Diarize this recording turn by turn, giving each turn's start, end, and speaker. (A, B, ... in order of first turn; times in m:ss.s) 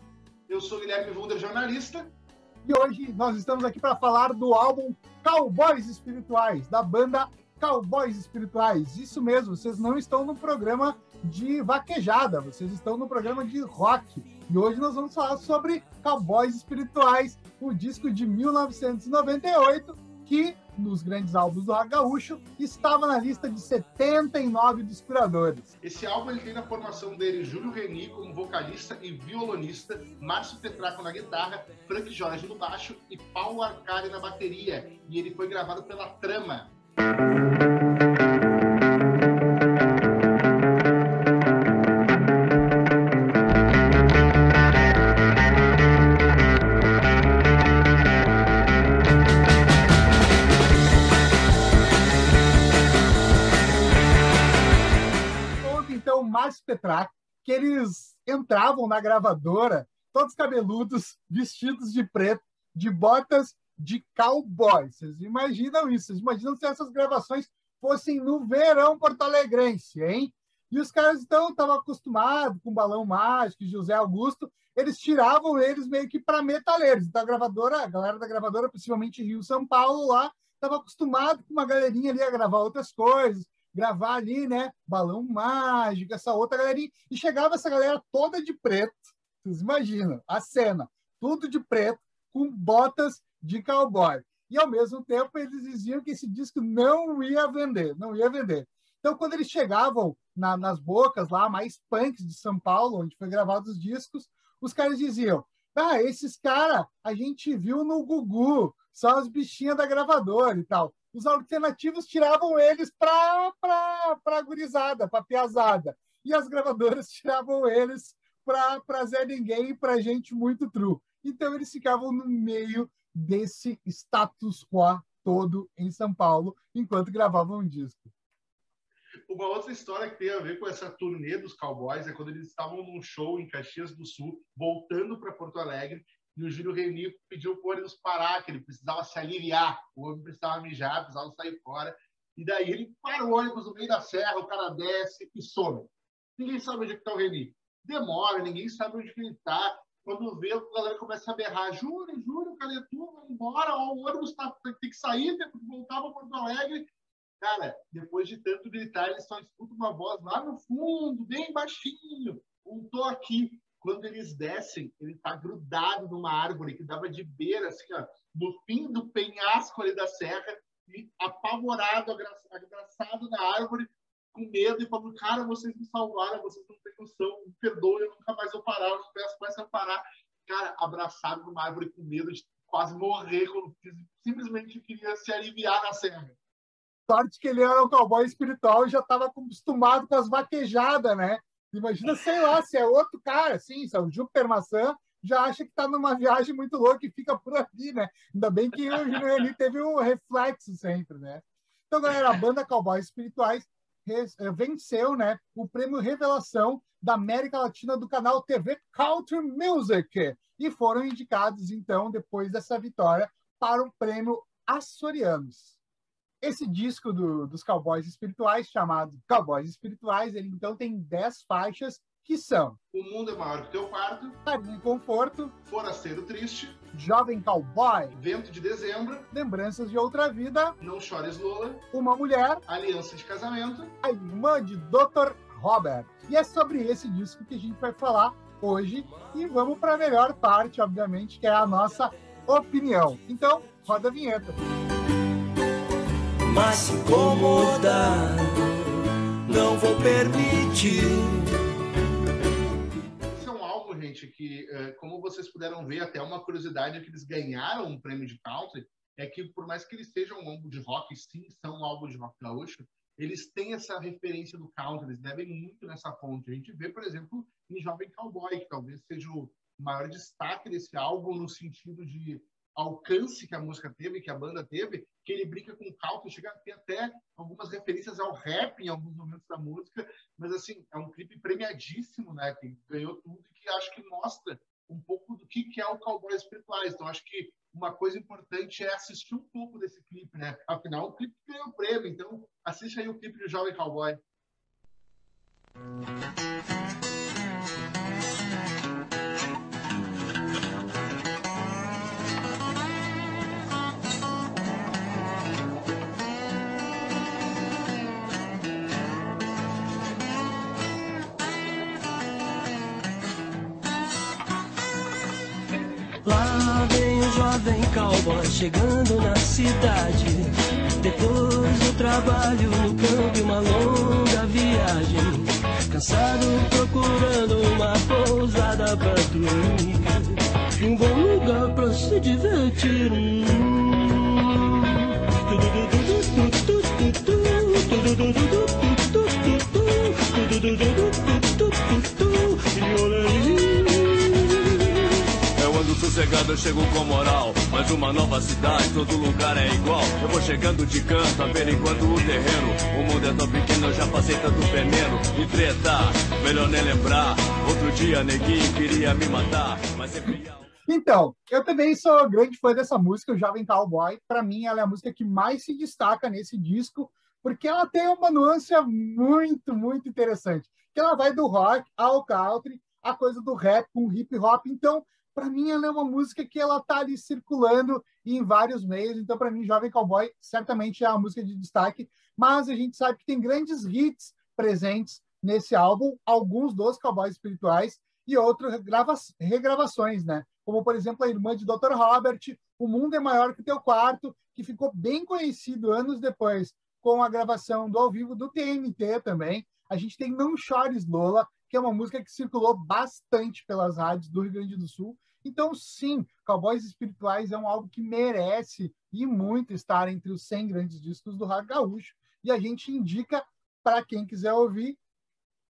0:00.5-0:02.1 A
0:02.6-0:25.7 B
0:25.8-0:36.7 A
0:55.6-2:08.1 B
2:09.3-2:36.9 A
2:37.4-3:06.4 A
3:07.1-3:35.8 B
3:36.4-3:42.8 B
3:42.9-3:44.4 A
3:44.4-3:45.5 B
3:45.6-3:46.8 A
3:46.9-3:48.2 B
3:48.1-3:49.3 A
3:49.3-3:50.8 B
3:50.8-3:51.8 A
3:51.9-3:52.6 B
3:52.7-3:54.0 A
3:54.0-4:04.6 B
4:06.4-4:11.6 C
4:13.3-4:54.2 A
5:16.2-5:45.4 C
5:45.5-6:00.6 D
6:00.9-6:55.0 B